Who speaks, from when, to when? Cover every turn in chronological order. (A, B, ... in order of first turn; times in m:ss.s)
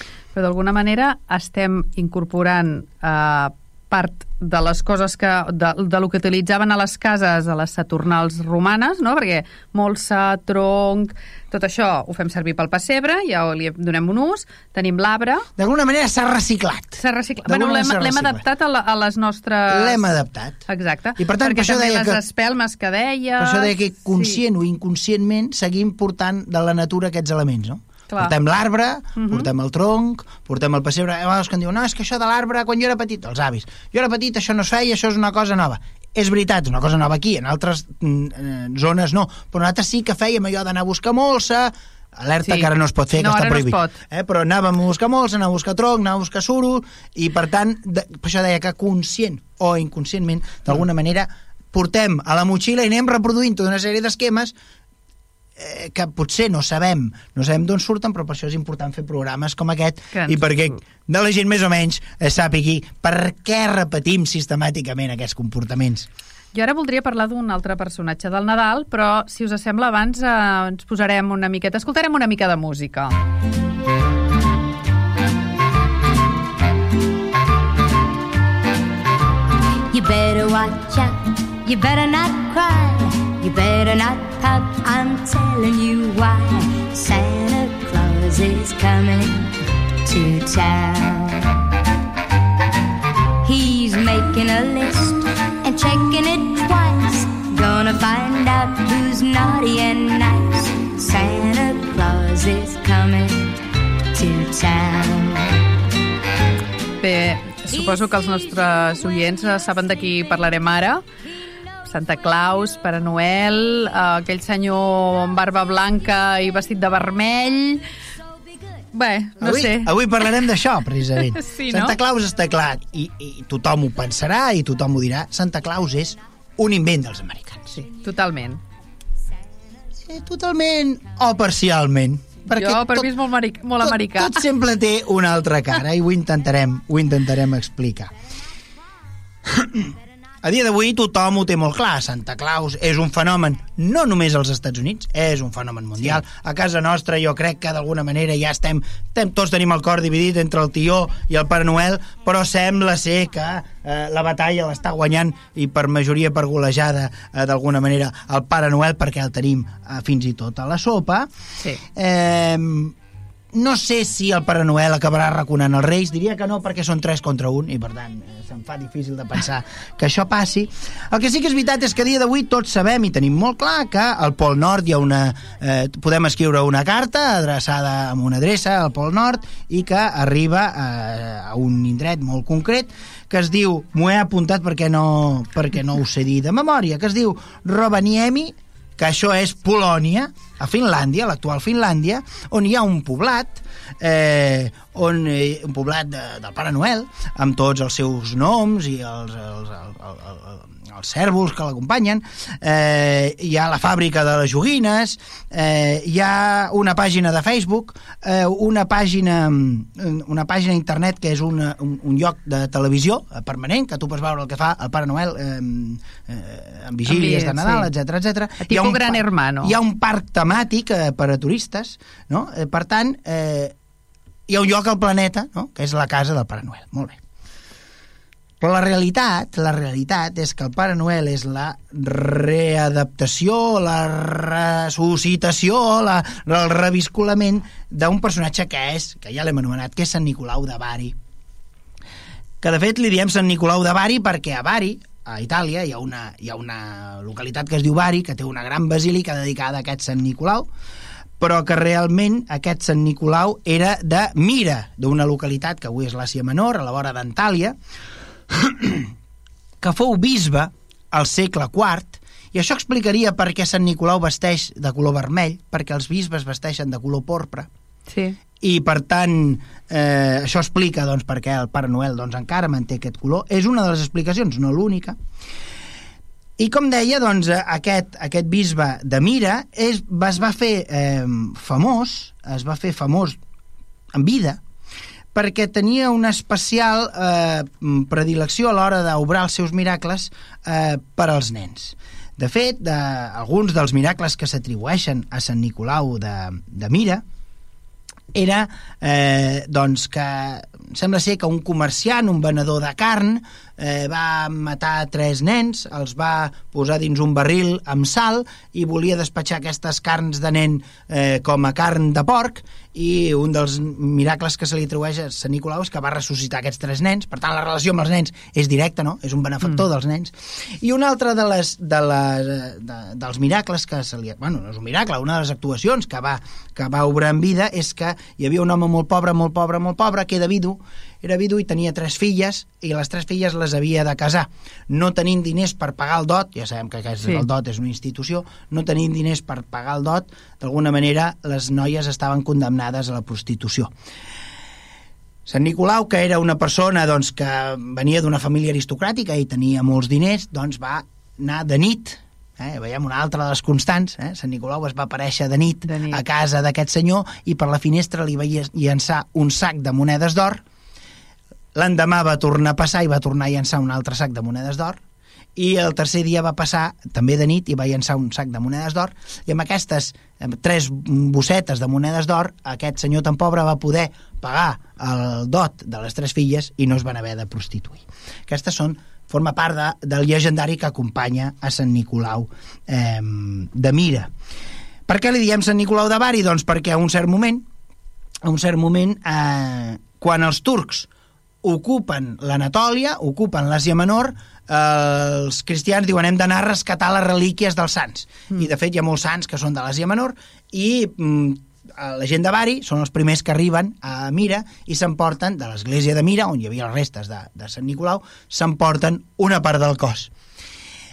0:00.3-0:15.5 A
0:15.6-0:18.4 B
0:17.0-0:20.0 A
0:19.7-0:20.6 B
0:20.7-0:24.4 A
0:21.2-0:22.2 B
0:23.4-0:54.5 B
0:28.1-0:28.3 A
0:29.2-0:29.5 A
0:42.4-0:44.0 A
0:55.6-1:06.1 B
1:00.1-1:00.8 A
1:06.5-1:13.2 A
1:19.9-1:29.5 C
1:30.0-1:31.5 C
1:33.4-1:43.6 C
1:44.1-1:45.6 C
1:47.0-1:51.0 A
1:51.8-1:57.8 A
1:58.9-2:00.0 A
1:59.4-2:07.8 B
2:01.3-2:02.0 A
2:07.7-2:08.6 A
2:10.0-2:13.2 B
2:12.6-2:14.4 A
2:13.8-2:18.1 B
2:19.5-2:41.3 B
2:41.9-2:42.9 B
2:43.5-3:43.7 B
3:37.0-3:37.9 A
3:38.6-3:39.8 A
3:44.5-3:47.2 B
3:48.6-4:01.2 B
4:02.6-4:10.7 B
4:11.4-4:17.8 B
4:18.5-4:19.1 B
4:19.8-4:27.7 B
4:28.1-4:28.4 A
4:28.6-4:35.2 B
4:36.6-4:43.4 B
4:44.1-4:44.6 B
4:45.3-4:57.2 B
4:58.3-5:43.9 B
5:45.4-6:00.6 B
5:55.8-5:56.2 A
6:01.7-6:05.0 B
6:05.6-6:24.3 B
6:25.1-6:27.6 B
6:28.4-6:31.1 B
6:31.6-6:50.3 B